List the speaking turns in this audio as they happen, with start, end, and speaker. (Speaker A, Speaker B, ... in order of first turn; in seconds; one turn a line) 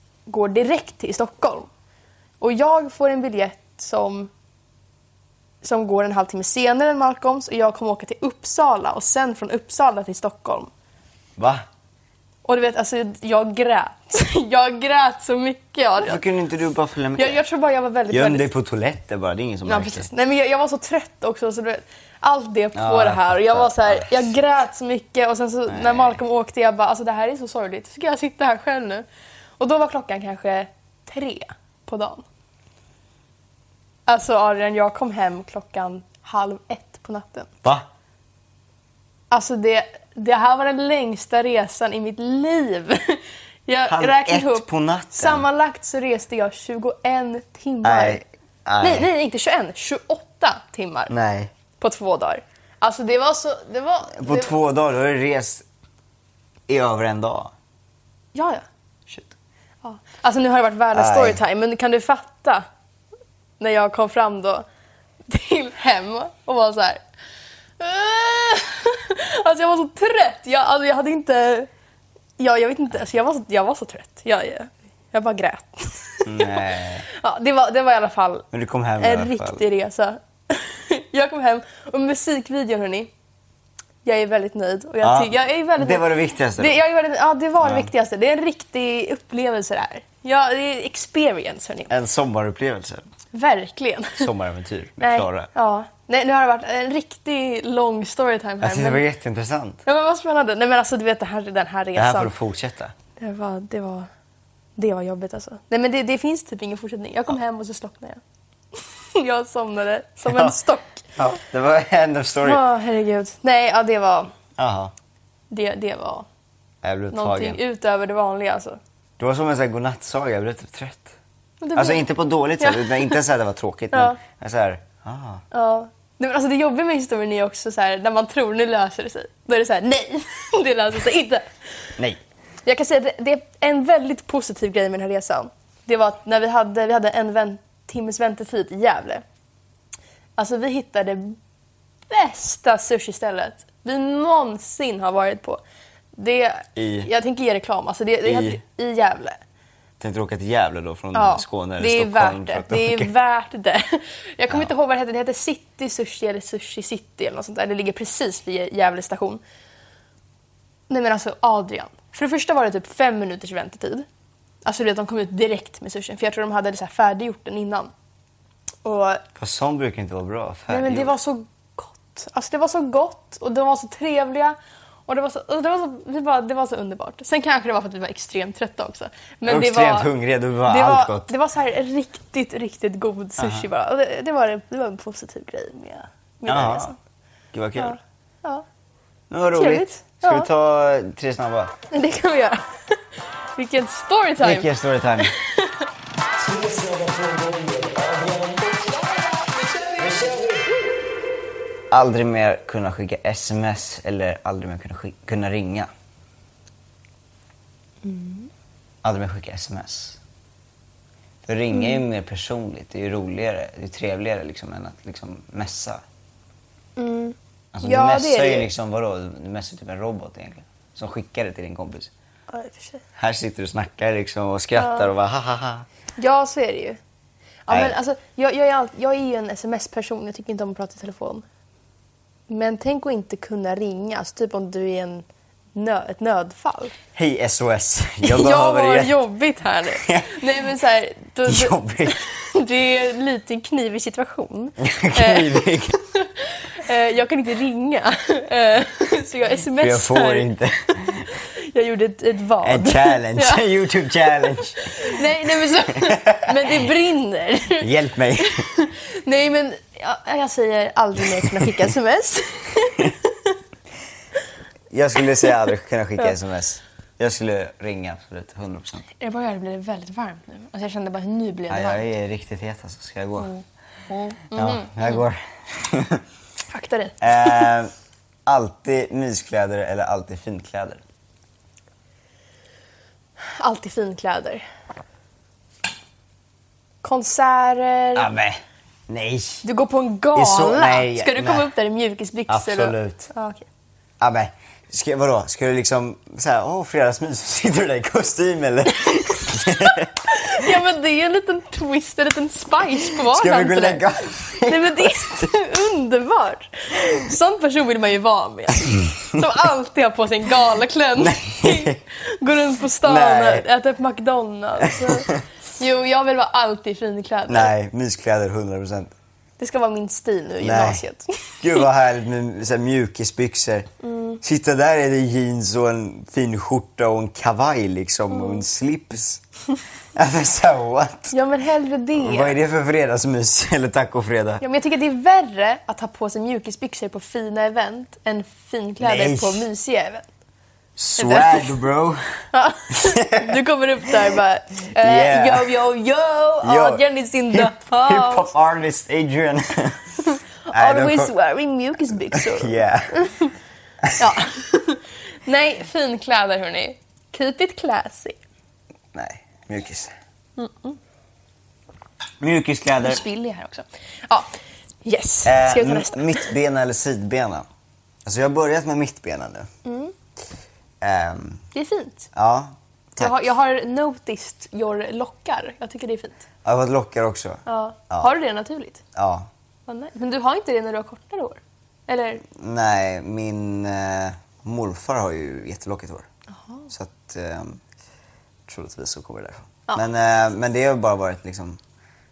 Speaker A: 0.3-1.7
Speaker A: 2.4-4.3
Speaker A: 5.6-10.7
Speaker B: 11.4-11.7
Speaker A: 12.4-16.2
Speaker B: 16.0-17.4
Speaker A: 17.2-18.5
Speaker B: 18.1-20.1
Speaker A: 19.6-29.1
Speaker B: 22.7-24.3
Speaker B: 25.7-26.2
Speaker A: 29.6-32.2
Speaker A: 34.1-37.5
Speaker A: 39.3-48.2
Speaker B: 43.9-45.4
Speaker B: 47.8-49.1
Speaker A: 48.8-51.1
Speaker B: 51.1-51.5
Speaker A: 51.8-54.5
Speaker B: 54.1-55.6
Speaker B: 56.7-57.5
Speaker A: 58.3-58.6
Speaker B: 59.1-59.3
Speaker A: 59.8-62.6
Speaker B: 60.9-61.4
Speaker A: 63.6-64.7
Speaker A: 65.3-67.0
Speaker A: 67.8-71.7
Speaker A: 72.4-78.5
Speaker B: 76.2-77.0
Speaker B: 78.5-79.6
Speaker A: 79.0-83.1
Speaker A: 84.0-91.9
Speaker B: 85.0-86.8
Speaker B: 87.6-87.9
Speaker B: 91.9-93.1
Speaker A: 93.3-94.3
Speaker B: 94.2-95.5
Speaker A: 95.0-99.0
Speaker B: 98.6-99.8
Speaker A: 99.8-102.3
Speaker B: 102.0-102.9
Speaker A: 103.2-104.1
Speaker A: 104.8-108.2
Speaker A: 108.7-111.1
Speaker B: 110.2-110.5
Speaker B: 111.2-112.6
Speaker A: 112.4-114.3
Speaker B: 114.6-114.9
Speaker A: 115.5-116.2
Speaker B: 116.8-117.6
Speaker A: 117.1-118.8
Speaker B: 119.2-121.2
Speaker A: 121.6-122.0
Speaker B: 121.7-125.4
Speaker A: 122.6-123.2
Speaker A: 123.9-124.2
Speaker A: 125.5-131.4
Speaker A: 132.6-139.2
Speaker A: 140.4-141.4
Speaker A: 142.1-145.6
Speaker A: 146.2-149.4
Speaker B: 146.8-147.1
Speaker B: 148.2-148.6
Speaker B: 150.0-153.1
Speaker A: 151.1-159.4
Speaker A: 160.9-164.1
Speaker A: 164.6-167.9
Speaker A: 168.8-169.2
Speaker B: 169.4-171.1
Speaker A: 170.7-180.1
Speaker B: 179.5-181.3
Speaker A: 180.7-187.0
Speaker B: 183.4-183.7
Speaker B: 186.4-186.9
Speaker B: 187.5-188.0
Speaker A: 187.8-188.6
Speaker B: 189.3-191.7
Speaker A: 189.5-190.5
Speaker A: 191.9-192.6
Speaker A: 193.5-195.8
Speaker B: 194.4-195.3
Speaker B: 196.4-198.8
Speaker B: 199.9-200.6
Speaker B: 201.9-205.9
Speaker A: 208.0-208.5
Speaker B: 209.0-210.2
Speaker B: 211.4-216.0
Speaker A: 211.7-212.0
Speaker A: 217.0-218.7
Speaker B: 217.7-222.1
Speaker A: 222.5-223.0
Speaker B: 223.2-225.9
Speaker A: 224.8-225.1
Speaker A: 226.2-227.0
Speaker A: 227.7-231.4
Speaker B: 227.7-227.9
Speaker A: 232.5-236.9
Speaker B: 237.1-239.2
Speaker A: 238.2-245.5
Speaker B: 240.0-240.4
Speaker B: 241.4-242.2
Speaker B: 244.8-246.0
Speaker A: 246.1-253.6
Speaker B: 249.8-251.3
Speaker B: 252.6-254.9
Speaker A: 254.6-263.6
Speaker B: 255.9-256.8
Speaker B: 257.8-258.6
Speaker B: 264.9-269.1
Speaker A: 269.2-272.1
Speaker B: 271.7-273.5
Speaker A: 273.4-275.2
Speaker B: 274.5-276.2
Speaker A: 276.7-277.7
Speaker B: 277.2-277.9
Speaker B: 278.4-281.0
Speaker A: 283.4-284.6
Speaker A: 287.0-288.3
Speaker B: 288.1-289.6
Speaker A: 289.6-293.6
Speaker B: 290.3-291.7
Speaker B: 292.5-293.3
Speaker B: 294.2-300.6
Speaker A: 299.1-304.0
Speaker B: 303.1-305.5
Speaker A: 304.6-317.7
Speaker B: 311.2-312.0
Speaker B: 313.0-313.6
Speaker B: 314.9-315.4
Speaker B: 317.5-319.1
Speaker A: 319.6-321.8
Speaker B: 320.6-321.0
Speaker B: 321.6-329.4
Speaker A: 324.0-324.4
Speaker A: 328.3-328.6
Speaker B: 330.1-331.3
Speaker A: 331.3-332.6
Speaker B: 332.2-334.6
Speaker A: 334.6-340.2
Speaker B: 339.0-339.6
Speaker B: 341.0-342.4
Speaker A: 341.2-341.7
Speaker A: 342.5-348.5
Speaker B: 342.9-343.6
Speaker B: 345.0-345.7
Speaker B: 346.6-351.3
Speaker A: 350.3-353.5
Speaker B: 352.3-353.2
Speaker B: 354.0-354.3
Speaker A: 354.2-358.4
Speaker B: 359.1-360.1
Speaker A: 360.6-361.0
Speaker B: 362.4-363.2
Speaker A: 363.0-366.5
Speaker B: 365.4-367.6
Speaker B: 368.2-369.7
Speaker A: 369.8-370.1
Speaker B: 371.0-371.6
Speaker A: 371.7-372.3
Speaker B: 372.3-373.4
Speaker A: 373.2-376.4
Speaker B: 376.6-378.3
Speaker A: 377.6-379.0
Speaker B: 379.1-379.5
Speaker A: 379.9-382.4
Speaker B: 382.5-386.2
Speaker B: 386.9-387.8
Speaker B: 388.7-391.8